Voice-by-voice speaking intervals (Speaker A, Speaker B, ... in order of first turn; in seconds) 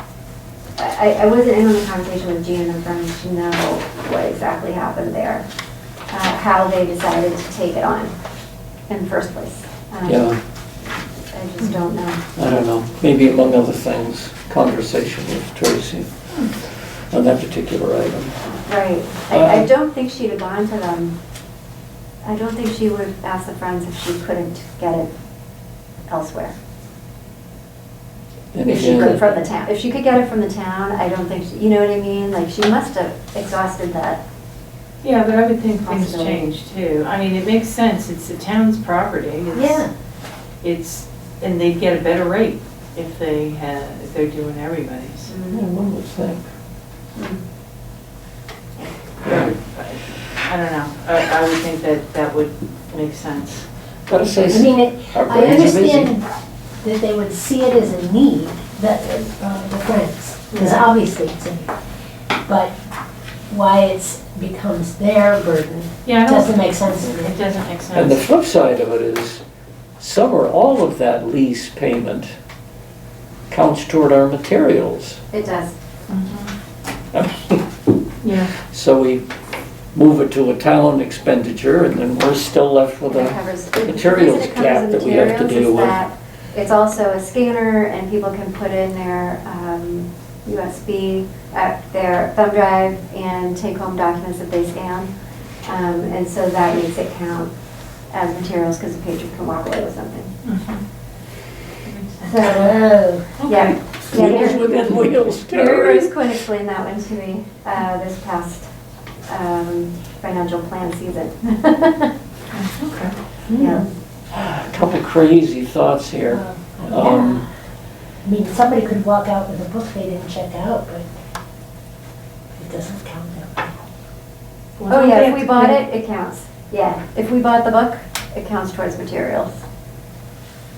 Speaker A: 0.8-5.5, 6.1-8.1, 8.9-10.3, 11.3-12.2, 18.5-21.2, 22.2-25.1, 26.1-26.6, 28.6-34.2, 35.9-36.4, 45.3-45.7, 75.3-75.8, 83.1-95.1, 95.7-97.5, 98.1-100.3, 102.2-102.8, 103.5-108.7, 109.3-112.1, 113.5-113.9, 124.9-129.6
Speaker B: 10.1-10.4, 12.4-16.1, 17.1-18.3, 19.3-19.7, 28.5-29.2, 45.5-46.4, 54.1-56.1, 67.9-69.4, 70.0-72.3, 73.5-75.2, 77.1-77.7, 78.6-79.2, 79.9-86.0, 104.1-106.2, 114.3-117.5
Speaker C: 28.8-29.4, 39.5-39.9, 54.5-56.3, 56.8-61.7, 62.5-62.7, 63.5-67.3, 102.4-103.3, 113.5-113.8, 116.3-117.5, 118.2-121.1, 122.6-123.8
Speaker D: 35.0-39.9, 40.6-45.3, 48.8-53.7, 60.5-60.8, 66.0-68.2, 76.1-76.5, 78.2-78.5, 100.4-100.8, 101.8-102.5, 103.4-103.8, 112.5-113.2, 124.8-125.8